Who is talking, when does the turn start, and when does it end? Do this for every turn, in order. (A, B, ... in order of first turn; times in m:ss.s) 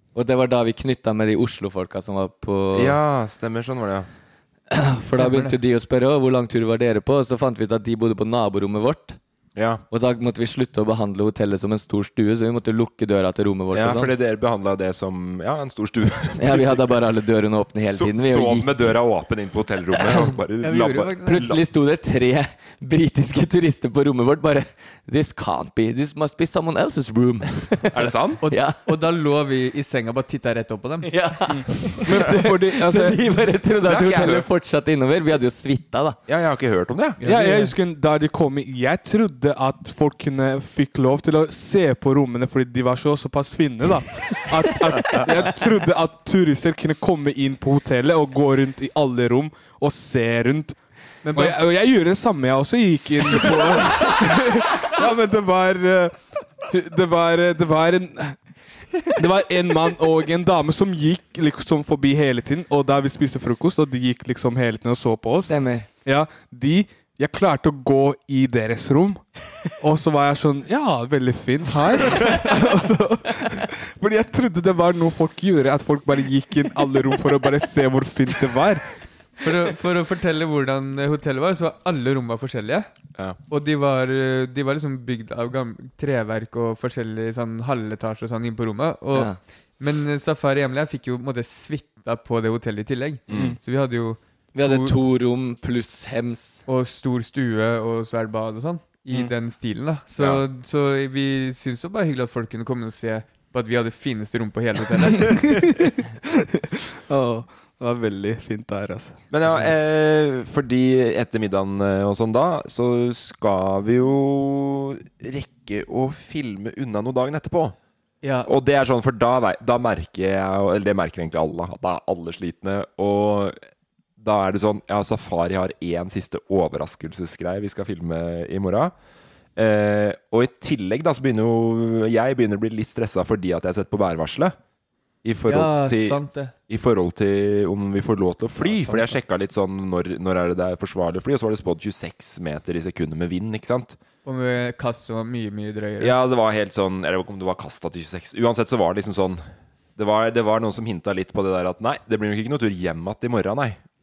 0:00.1-0:03.0 A
0:02.7-0:04.1 B
0:04.7-0:09.2 A
0:05.2-0:05.6 C
0:09.6-0:09.8 B
0:09.9-0:14.1 A
0:13.7-0:17.0 B
0:16.4-0:18.8 A
0:17.8-0:21.6 B
0:20.6-0:21.4 C
0:21.2-0:28.8 A
0:27.9-0:28.4 B
0:28.4-0:31.1 C
0:31.0-0:36.2 A
0:31.5-0:33.2 D
0:33.8-0:34.4 B
0:36.3-0:37.2 B
0:37.2-0:50.8 D
0:37.2-0:37.7 A
0:51.2-0:51.6 C
0:51.3-0:58.4 D
0:59.2-1:05.5 D
1:05.4-1:05.9 A
1:06.0-1:09.2 D
1:09.8-1:18.8 D
1:19.4-1:22.9 C
1:23.5-1:35.0 C
1:33.3-1:33.6 B
1:34.5-1:36.6 A
1:36.7-1:45.5 C
1:45.1-1:46.0 D
1:46.6-1:49.2 D
1:49.3-1:57.8 B
1:58.2-1:58.5 C
1:58.4-2:03.6 B
2:04.2-2:08.9 B
2:09.6-2:14.6 B
2:15.2-2:24.0 B
2:15.5-2:16.5 C
2:18.6-2:19.1 C
2:24.2-2:26.2 C
2:26.0-2:29.4 B
2:30.0-2:33.8 B